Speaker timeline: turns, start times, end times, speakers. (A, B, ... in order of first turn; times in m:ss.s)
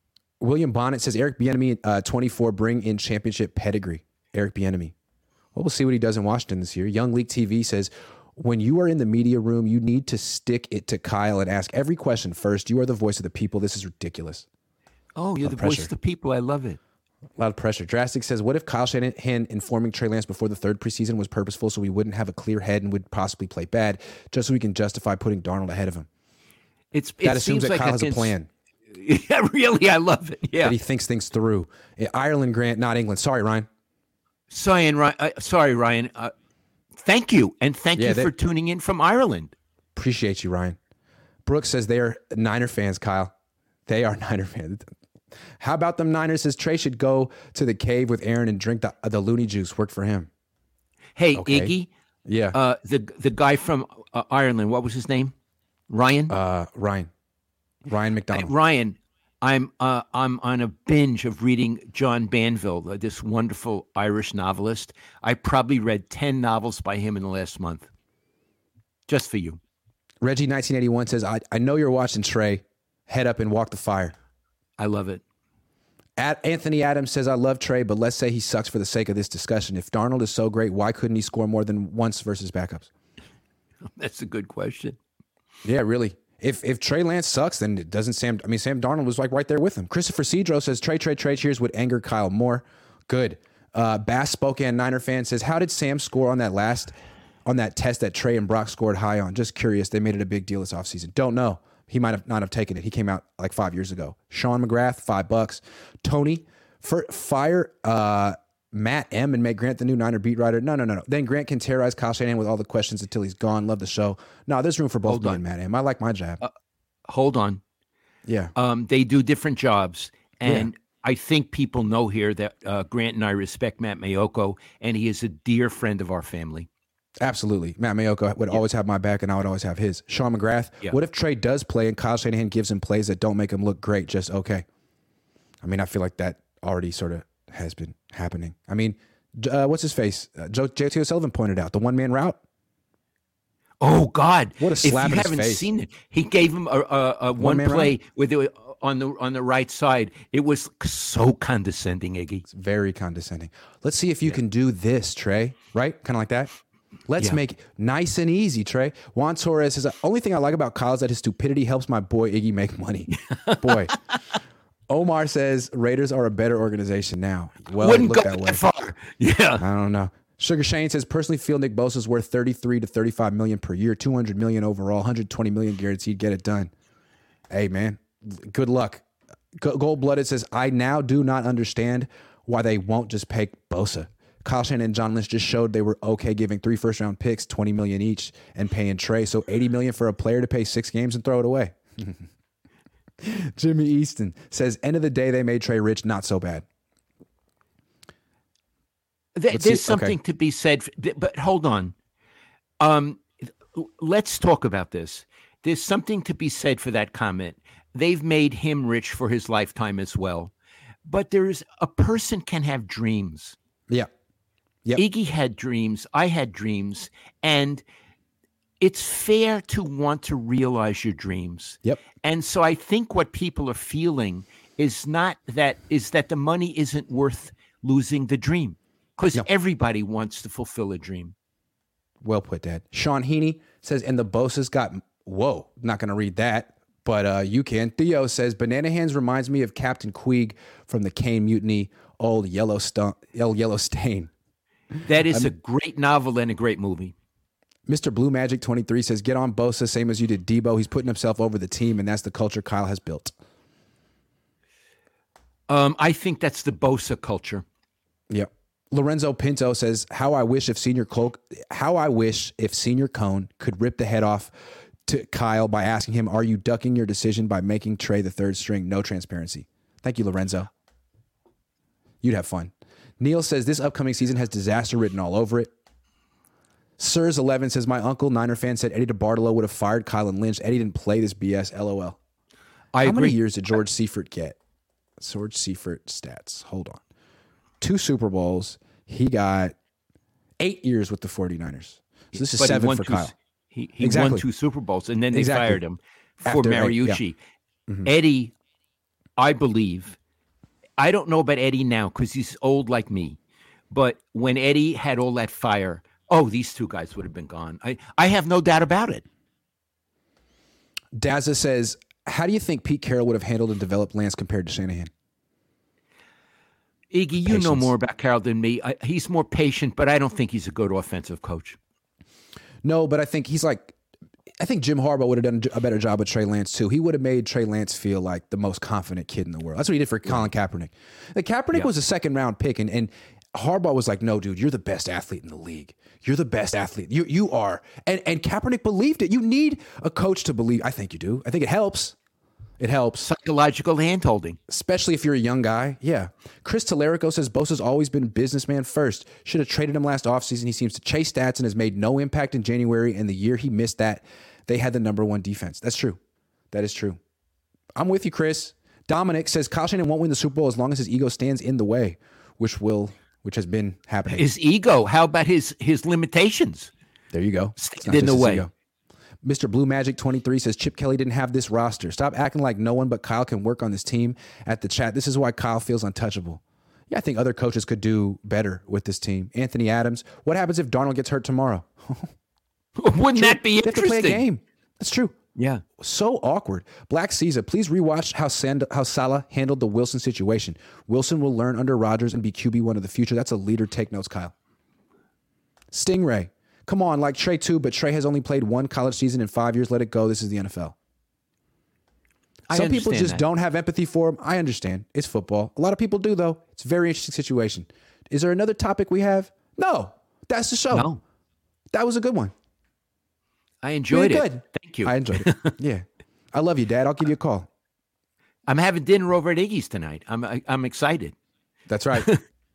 0:00.4-0:04.9 A
0:05.6-0:14.5 A
0:15.2-0:16.8 B
0:15.4-0:15.9 A
0:17.4-0:26.1 A
0:26.9-0:28.4 B
0:27.2-0:28.5 A
0:28.9-0:30.8 B
0:30.6-0:33.7 A
0:34.5-0:36.3 B
0:37.0-0:39.5 B
0:38.0-0:38.3 A
0:40.0-0:40.8 A
0:41.5-0:43.3 A
0:43.9-0:44.9 A
0:45.6-0:50.3 A
0:51.2-0:51.9 B
0:51.4-0:51.7 A
0:52.2-0:52.6 A
0:52.5-0:55.3 B
0:55.9-0:56.4 B
0:56.3-0:57.1 A
0:57.9-0:58.5 A
0:58.3-1:07.9 B
1:09.1-1:09.6 B
1:10.2-1:14.1 A
1:14.8-1:15.2 B
1:16.2-1:22.9 A
1:24.0-1:25.0 B
1:25.6-1:36.9 A
1:37.5-1:56.4 A
1:55.1-1:55.4 B
1:57.1-1:57.6 B
1:58.3-1:58.5 A
1:58.6-2:06.7 B
2:07.2-2:14.6 A
2:15.6-2:22.4 A
2:23.8-2:32.4 B
2:24.6-2:25.7 A
2:27.4-2:28.0 A
2:32.5-2:36.5 A
2:37.1-2:43.9 A
2:43.1-2:44.4 B
2:44.9-2:48.6 A
2:47.8-2:49.6 B
2:49.6-2:56.7 A
2:57.5-3:12.2 A
3:13.2-3:16.6 A
3:19.4-3:21.9 B
3:19.5-3:20.2 A
3:22.8-3:30.5 B
3:31.0-3:33.6 B
3:35.0-3:37.8 B
3:38.8-3:51.4 B
3:52.2-4:04.3 A
4:05.0-4:07.1 B
4:07.9-4:13.3 A
4:15.7-4:17.6 B
4:18.3-4:24.5 A
4:25.1-4:30.7 A
4:32.2-4:35.7 A
4:37.0-4:42.2 A
4:42.9-4:43.4 B
4:43.0-4:44.6 A
4:45.2-4:47.0 A
4:47.8-4:49.8 A
4:50.6-4:53.3 A
4:52.3-4:57.4 B
4:54.0-4:54.4 A
4:55.3-4:55.8 A
4:56.5-4:57.2 A
4:58.0-4:58.5 B
4:59.4-5:00.2 B
5:01.0-5:03.4 B
5:03.9-5:09.2 B
5:11.2-5:15.1 A
5:17.1-5:21.8 B
5:17.4-5:17.9 A
5:22.8-5:23.9 A
5:24.6-5:42.2 A
5:42.8-5:43.3 A
5:43.2-5:44.6 B
5:44.7-5:56.2 A
5:56.7-5:57.2 A
5:58.0-6:04.5 A
6:04.3-6:06.9 B
6:07.3-6:08.7 A
6:07.8-6:08.7 B
6:09.4-6:22.3 A
6:23.0-6:24.4 B
6:23.3-6:25.4 A
6:25.6-6:25.8 B
6:26.0-6:34.5 A
6:35.9-6:41.0 A
6:42.7-6:43.4 B
6:42.7-6:51.1 A
6:50.9-6:51.2 B
6:51.9-6:52.5 A
6:53.8-6:55.8 B
6:54.1-6:57.7 A
6:58.7-7:01.4 B
7:01.9-7:02.3 A
7:02.1-7:02.4 B